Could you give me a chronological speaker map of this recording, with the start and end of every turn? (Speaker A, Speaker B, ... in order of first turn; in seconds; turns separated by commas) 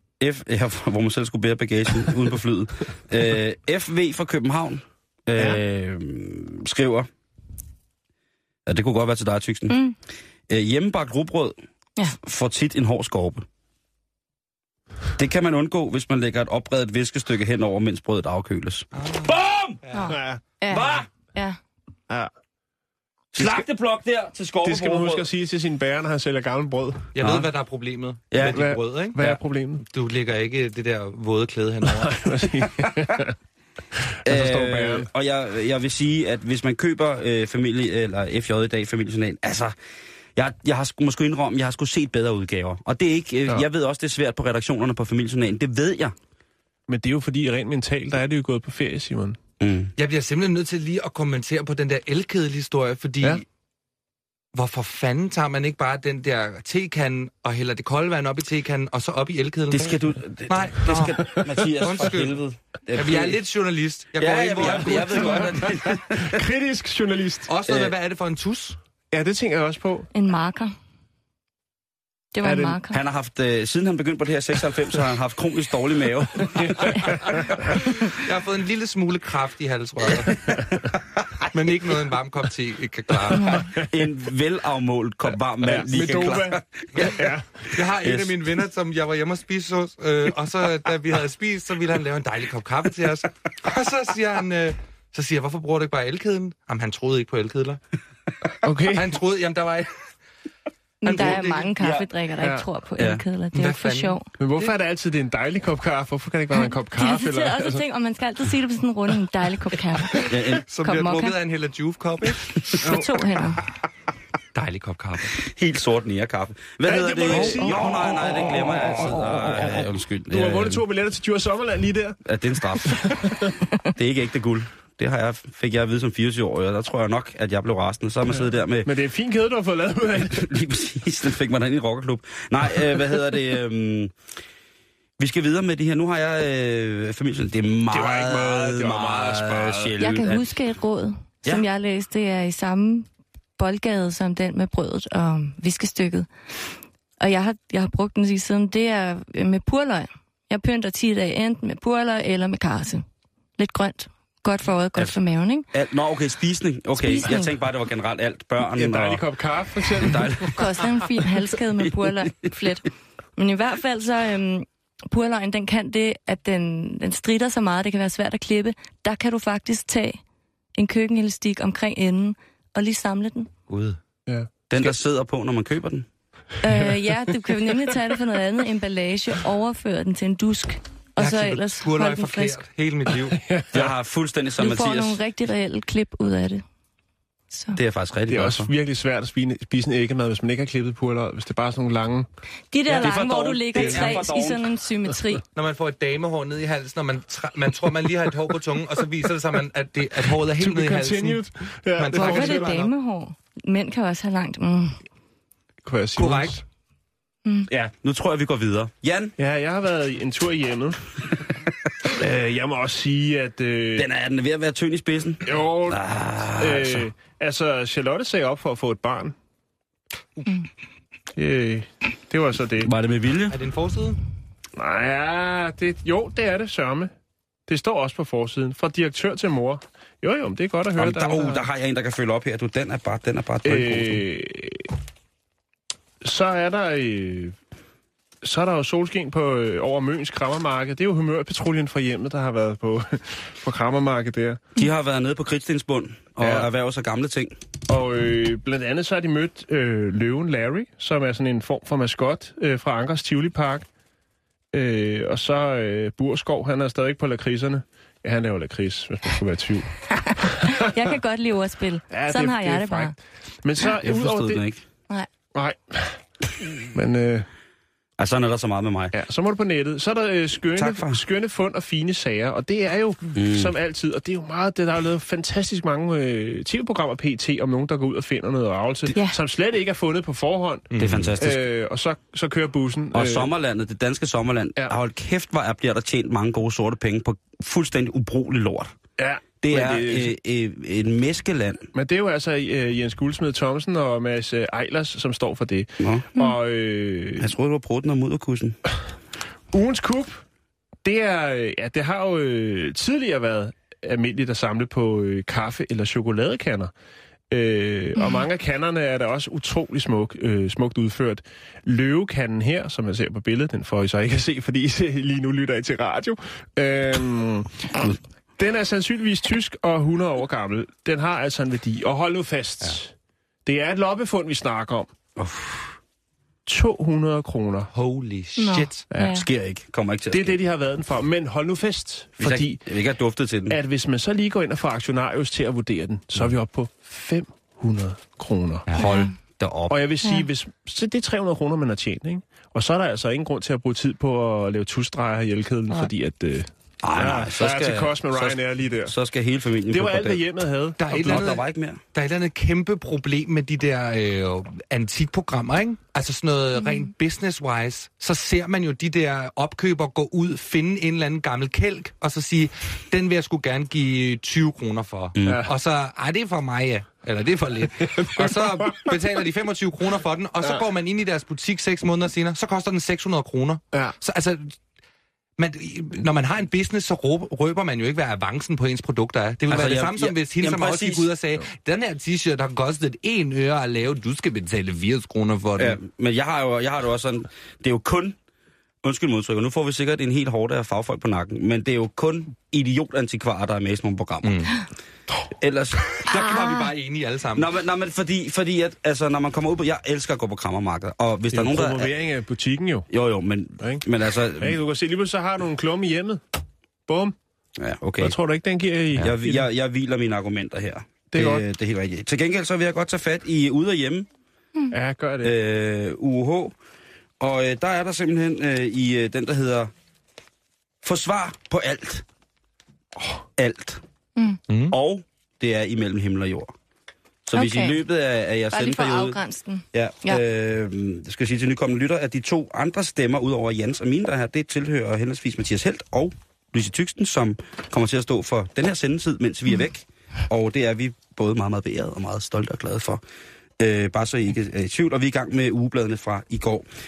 Speaker A: 0.2-7.1, Speaker A: 8.7-9.8, Speaker B: 9.7-9.9, Speaker A: 10.5-11.6, Speaker A: 12.1-13.4, Speaker A: 15.2-19.8, Speaker C: 18.9-20.1, Speaker B: 19.9-21.6, Speaker D: 20.0-20.4, Speaker A: 20.7-21.1, Speaker A: 23.3-25.3, Speaker D: 23.3-23.6, Speaker D: 24.6-27.1, Speaker C: 27.1-32.6, Speaker A: 27.2-27.5, Speaker A: 28.3-28.7, Speaker D: 28.4-29.8, Speaker D: 31.8-33.3, Speaker D: 34.0-35.1, Speaker A: 34.2-39.7, Speaker A: 40.4-46.1, Speaker D: 46.9-49.4, Speaker A: 49.6-49.9, Speaker C: 50.0-53.4, Speaker C: 54.5-62.4, Speaker A: 59.7-63.4, Speaker C: 62.9-65.5, Speaker A: 64.1-66.4, Speaker D: 64.6-67.5, Speaker C: 67.5-68.8, Speaker A: 67.7-67.9, Speaker D: 69.1-70.1, Speaker B: 70.1-70.7, Speaker B: 72.3-73.0, Speaker D: 72.4-72.8, Speaker A: 72.9-77.7, Speaker D: 76.6-77.5, Speaker C: 77.9-80.4, Speaker A: 80.2-81.5, Speaker D: 80.4-80.6, Speaker C: 81.5-83.6, Speaker D: 83.4-83.9, Speaker A: 83.7-87.2, Speaker D: 85.6-87.6, Speaker C: 87.7-97.8, Speaker A: 87.8-88.4, Speaker D: 98.6-99.1, Speaker C: 98.9-99.9, Speaker B: 101.0-104.2, Speaker C: 101.0-101.7, Speaker A: 101.2-102.1, Speaker D: 102.4-102.7, Speaker A: 103.0-103.2, Speaker C: 103.5-104.8, Speaker D: 104.4-107.8, Speaker B: 106.9-111.4, Speaker A: 110.2-110.7, Speaker C: 110.7-112.6, Speaker B: 112.7-113.6, Speaker D: 112.8-113.1, Speaker C: 114.5-115.4, Speaker A: 115.4-120.8, Speaker D: 116.8-123.5, Speaker A: 122.2-123.2, Speaker A: 123.9-128.9, Speaker D: 128.3-130.5, Speaker A: 130.2-134.1, Speaker A: 135.2-140.5, Speaker D: 137.9-139.9, Speaker B: 140.0-143.1, Speaker B: 143.6-146.3, Speaker B: 147.2-153.0, Speaker B: 153.6-155.7, Speaker A: 155.7-159.2, Speaker B: 157.0-157.5, Speaker D: 158.7-160.6, Speaker A: 159.9-160.9, Speaker B: 160.5-170.2, Speaker B: 170.8-173.5, Speaker C: 173.7-173.9, Speaker D: 174.3-174.9, Speaker A: 174.7-176.1, Speaker B: 176.6-182.6, Speaker C: 181.2-183.4, Speaker D: 183.3-183.9, Speaker A: 183.7-185.2, Speaker B: 184.6-186.6, Speaker B: 187.5-187.8, Speaker A: 187.7-188.7, Speaker D: 188.3-192.3, Speaker B: 192.7-195.4, Speaker A: 192.9-194.7, Speaker D: 193.8-194.1, Speaker C: 195.5-201.4, Speaker D: 200.6-202.8, Speaker C: 201.9-202.9, Speaker B: 202.1-205.0, Speaker D: 205.8-206.6, Speaker C: 206.2-206.6, Speaker A: 207.7-209.3, Speaker D: 209.4-211.0, Speaker D: 212.1-214.1, Speaker A: 213.9-217.1, Speaker D: 215.4-216.0, Speaker D: 216.6-219.3, Speaker D: 221.3-222.9, Speaker A: 222.8-223.6, Speaker C: 223.5-224.2, Speaker D: 224.8-227.1, Speaker D: 227.7-231.6, Speaker A: 230.9-234.2, Speaker D: 233.6-234.9, Speaker D: 236.2-237.5, Speaker D: 238.4-244.6, Speaker A: 244.8-247.5, Speaker D: 246.4-246.7, Speaker D: 247.9-253.8, Speaker D: 254.7-260.8, Speaker B: 260.3-263.1, Speaker D: 262.1-264.6, Speaker A: 264.0-264.8, Speaker D: 265.5-266.2, Speaker D: 266.9-267.5, Speaker A: 268.2-269.1, Speaker D: 269.1-283.5, Speaker A: 270.8-271.2, Speaker A: 273.3-273.7, Speaker C: 280.9-281.3, Speaker A: 281.0-281.6, Speaker A: 283.1-288.9, Speaker D: 289.2-290.3, Speaker A: 289.6-291.9, Speaker D: 291.9-297.5, Speaker A: 296.0-296.3, Speaker A: 297.4-298.8, Speaker D: 299.7-300.4, Speaker D: 301.0-306.9, Speaker D: 307.5-323.1, Speaker D: 323.6-325.1, Speaker A: 325.4-325.9, Speaker D: 326.6-327.9, Speaker C: 327.9-329.0, Speaker B: 328.6-329.4, Speaker D: 329.1-329.4, Speaker A: 329.3-330.6, Speaker D: 330.3-332.8, Speaker A: 332.4-333.8, Speaker D: 333.7-339.1, Speaker C: 338.9-339.3, Speaker B: 339.0-339.3, Speaker A: 339.6-339.9, Speaker D: 339.9-349.1, Speaker A: 347.0-350.4, Speaker D: 349.9-351.5, Speaker C: 351.0-351.6, Speaker A: 351.1-352.0, Speaker C: 352.1-374.7, Speaker A: 365.4-365.7, Speaker D: 365.4-365.7, Speaker D: 368.2-369.1, Speaker C: 375.6-386.0, Speaker A: 379.7-381.3, Speaker A: 385.8-388.4, Speaker A: 389.0-394.7, Speaker C: 394.4-394.7, Speaker A: 395.6-396.9, Speaker C: 396.2-397.7, Speaker A: 397.5-402.1, Speaker D: 401.5-403.1, Speaker A: 403.1-404.8, Speaker D: 403.8-404.1, Speaker D: 404.6-406.4, Speaker D: 407.1-407.3, Speaker A: 407.8-408.4, Speaker D: 408.2-409.6, Speaker A: 409.1-414.3, Speaker D: 411.3-411.6, Speaker D: 414.9-415.5, Speaker A: 415.4-416.8, Speaker A: 417.4-419.9, Speaker A: 421.0-422.2, Speaker A: 423.6-424.0, Speaker C: 424.7-424.9, Speaker A: 424.9-426.7, Speaker A: 427.4-429.4, Speaker B: 427.5-428.0, Speaker B: 428.7-430.4, Speaker A: 429.9-443.2, Speaker A: 443.8-446.9